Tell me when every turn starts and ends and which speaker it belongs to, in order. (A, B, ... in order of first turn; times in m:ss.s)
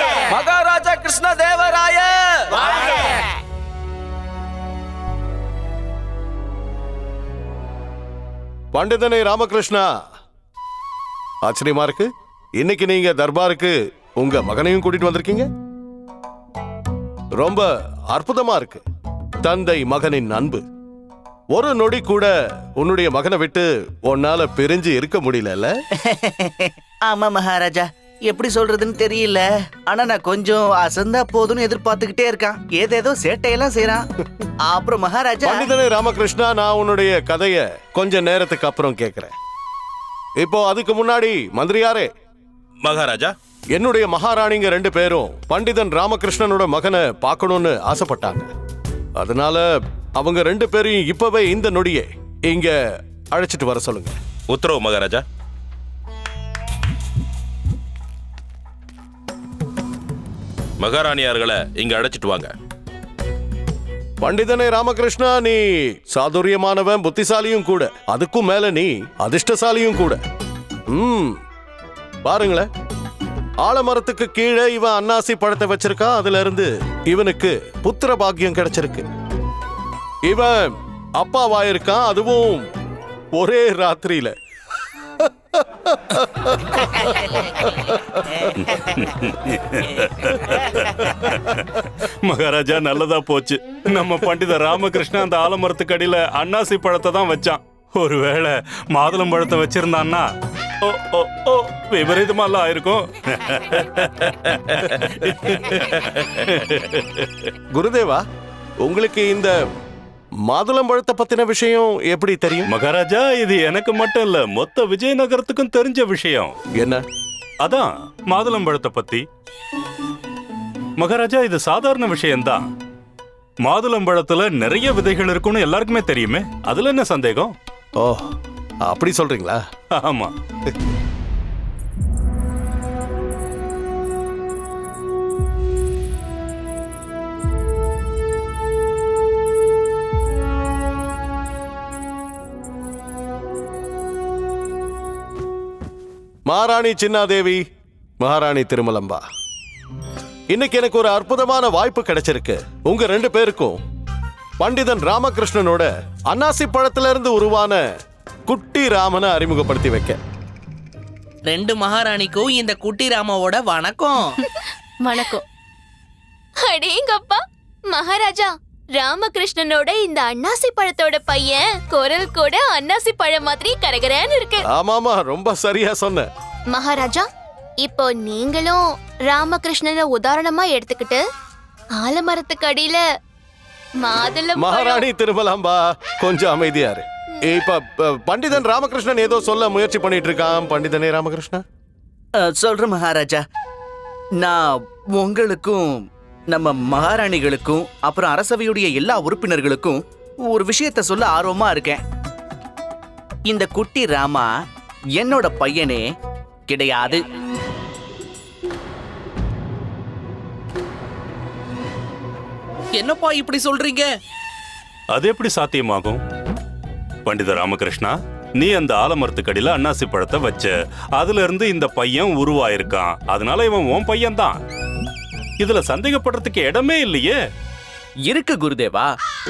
0:00.3-0:02.8 A
0:08.7-0:09.9 B
0:11.4-0:15.5 B
0:17.4-0:18.8 B
0:19.4-0:20.6 B
0:21.5-0:25.7 B
0:26.0-0:34.0 C
0:34.6-0:35.7 C
0:35.4-0:39.3 B
0:40.4-0:42.1 B
0:42.8-0:43.3 D
0:43.7-0:48.5 B
0:49.2-0:52.8 B
0:53.3-0:54.2 B
0:54.5-0:55.2 D
1:00.8-1:02.5 D
1:04.2-1:10.2 B
1:10.9-1:11.4 B
1:12.2-1:12.7 B
1:13.6-1:19.1 B
1:20.3-1:22.7 B
1:23.3-1:24.3 B
1:25.2-1:28.0 B
1:28.5-1:40.3 E
1:40.8-1:47.5 E
1:47.7-1:48.2 B
1:48.8-1:49.5 B
1:50.4-1:52.7 B
1:52.7-1:56.5 E
1:56.8-1:57.0 B
1:57.6-1:59.2 E
2:01.0-2:02.6 E
2:03.6-2:07.5 E
2:08.0-2:09.6 B
2:10.0-2:10.3 E
2:26.5-2:27.6 B
2:28.2-2:29.2 B
2:30.5-2:33.8 B
2:34.6-2:37.8 B
2:38.5-2:40.2 B
2:41.5-2:44.3 F
2:44.4-2:45.4 G
2:46.6-2:54.6 G
2:54.7-2:56.3 B
2:56.7-2:57.3 G
2:57.8-3:01.2 G
3:01.9-3:03.0 G
3:04.0-3:05.0 G
3:04.6-3:11.6 B
3:12.4-3:13.4 C
3:14.4-3:22.0 C
3:23.5-3:24.5 C
3:25.2-3:26.1 C
3:26.7-3:27.2 C
3:33.0-3:34.1 F
3:35.1-3:36.2 E
3:37.2-3:44.6 E
3:45.6-3:47.4 E
3:48.3-3:49.1 C